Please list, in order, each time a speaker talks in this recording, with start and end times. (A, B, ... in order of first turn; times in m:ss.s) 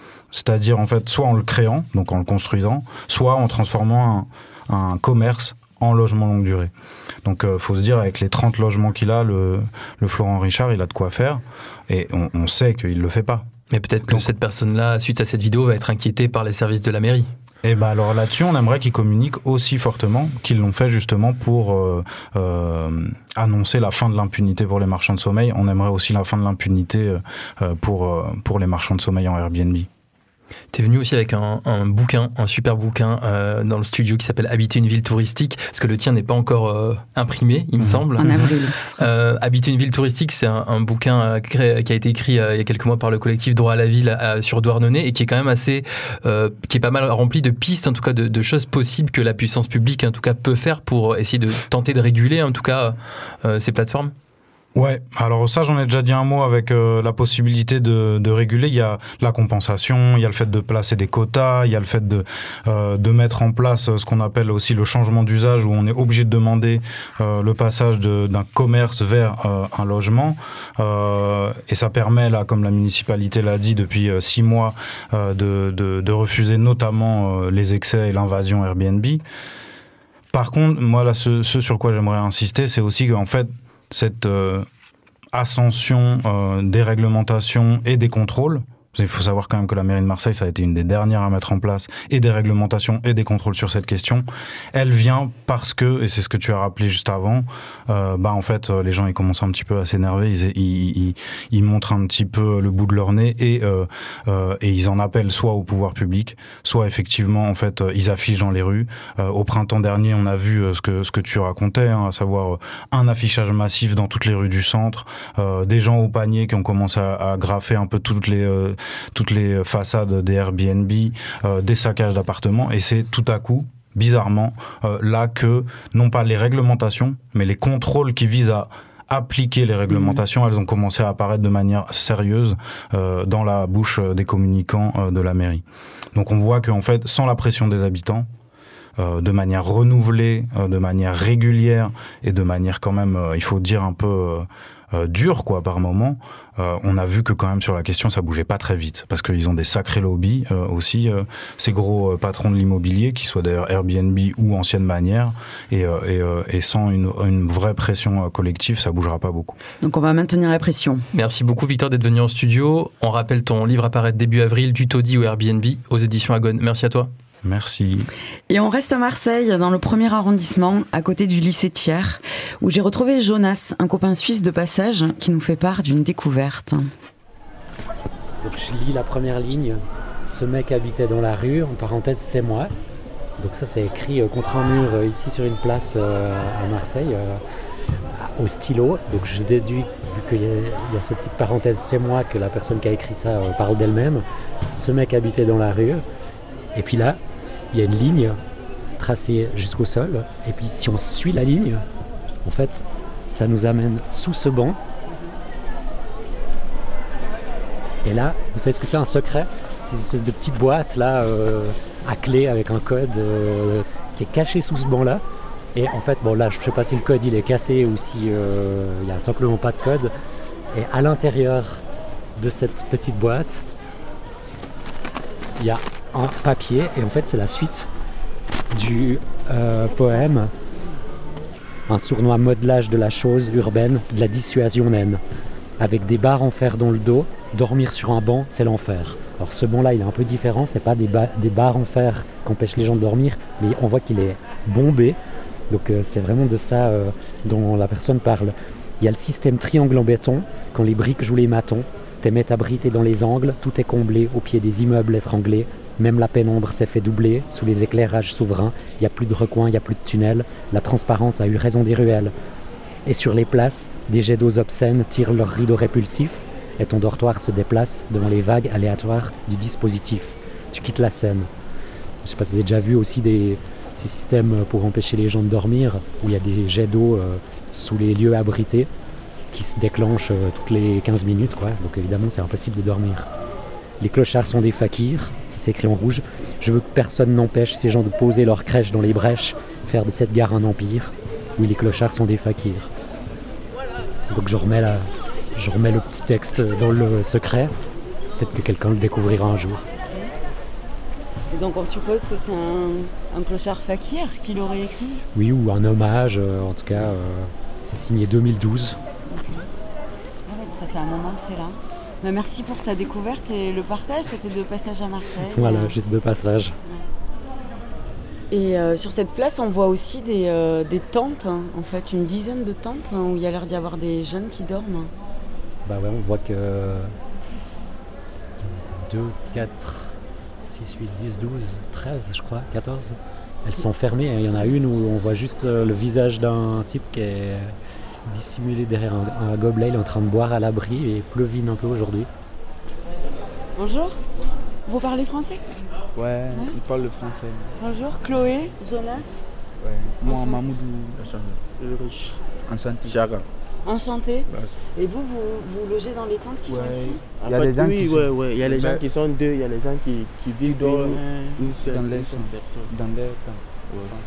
0:00.3-0:06.7 A
0:07.2-0:13.5 A
0:13.7-0:17.3 B
0:17.6-0:29.9 A
0:30.7-0:54.1 B
0:38.2-0:39.0 C
0:54.8-1:19.2 A
1:20.3-1:24.7 A
1:25.3-2:15.6 A
2:16.1-2:18.3 A
2:19.0-2:39.6 A
2:39.8-2:41.0 C
2:41.1-2:47.1 B
2:47.4-2:48.1 A
2:48.5-2:56.9 C
2:58.4-3:02.7 D
3:03.4-3:07.4 D
3:08.1-3:14.2 D
3:14.7-3:16.0 D
3:16.7-3:17.2 D
3:17.7-3:18.4 D
3:19.0-3:21.8 D
3:22.4-3:24.8 D
3:28.0-3:35.2 D
3:35.8-3:40.1 D
3:40.7-3:41.8 D
3:42.4-3:43.6 D
3:45.6-3:47.9 D
3:48.7-3:50.5 D
3:49.6-3:50.3 C
3:51.9-3:55.2 D
3:55.8-4:05.2 D
4:05.7-4:22.3 D
4:23.0-4:31.5 D
4:32.2-4:38.9 D
4:39.5-4:43.3 D
4:44.0-4:52.9 D
4:54.3-4:57.8 D
4:58.4-4:59.9 D
4:59.9-5:00.3 C
5:01.5-5:05.2 C
5:05.4-5:09.0 D
5:09.3-5:09.7 C
5:10.5-5:16.0 C
5:15.5-5:16.8 D
5:18.5-5:25.1 C
5:25.8-5:27.2 D
5:28.6-5:37.8 D
5:38.3-5:42.3 D
5:43.8-5:44.2 C
5:44.9-5:45.7 C
5:46.2-5:47.7 E
5:47.8-5:49.4 C
5:49.8-5:51.2 E
5:50.2-5:50.6 C
5:51.2-5:52.4 F
5:52.6-5:53.2 E
5:53.0-5:53.5 F
5:53.8-5:57.2 C
5:56.7-5:59.0 E
5:57.4-6:02.9 F
6:00.6-6:03.6 E
6:03.9-6:04.2 F